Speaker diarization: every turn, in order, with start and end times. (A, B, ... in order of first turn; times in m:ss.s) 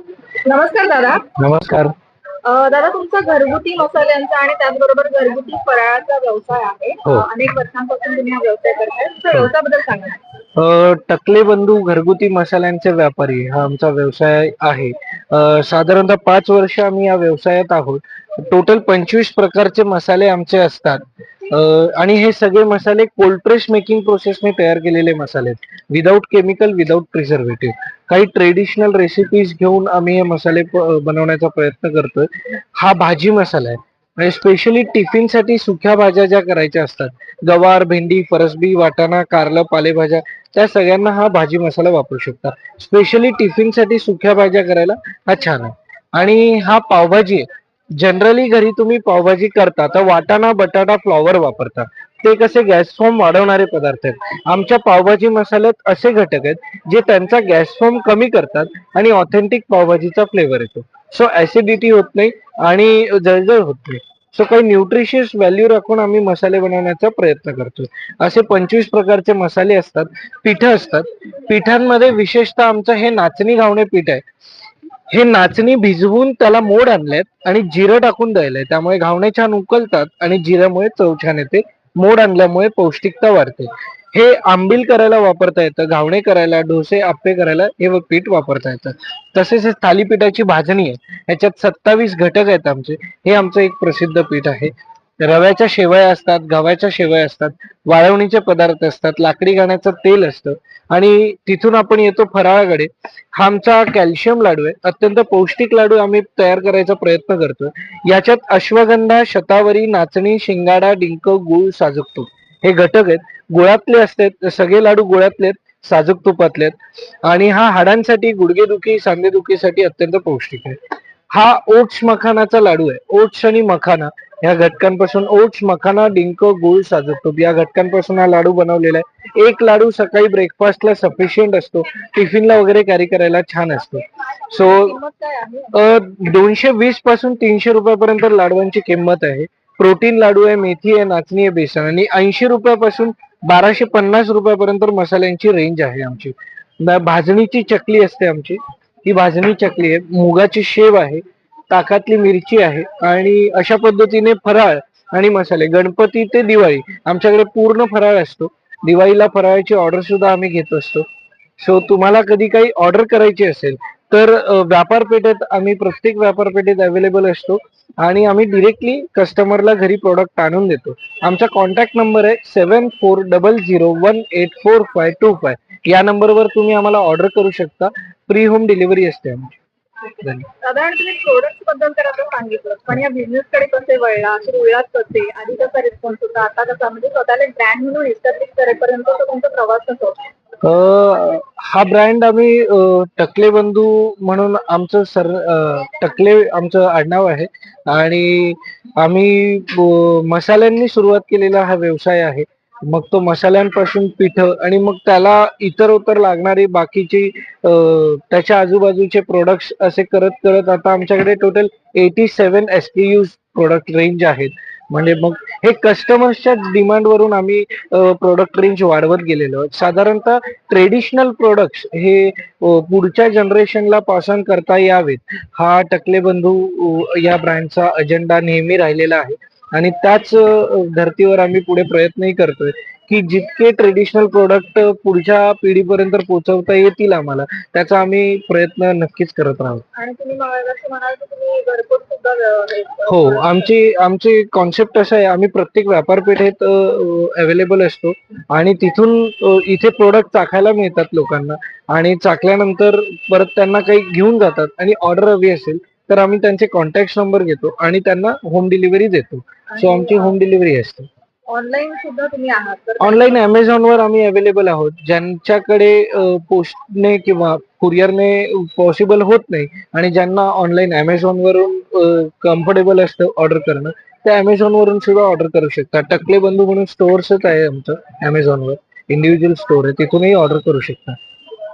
0:00.4-0:01.2 A
0:01.4-0:01.9 B
0:02.4-0:10.2 A
0:10.6-1:14.2 B
1:15.1-2:00.8 B
2:01.3-2:15.0 B
2:14.5-2:15.8 A
2:15.7-2:41.0 B
2:41.6-2:59.5 B
3:00.2-3:00.5 B
3:00.6-3:10.2 A
3:10.6-3:59.8 B
3:59.9-4:03.7 A
4:03.1-4:21.1 B
4:19.7-4:20.4 A
4:21.5-4:23.4 A
4:23.0-4:41.2 B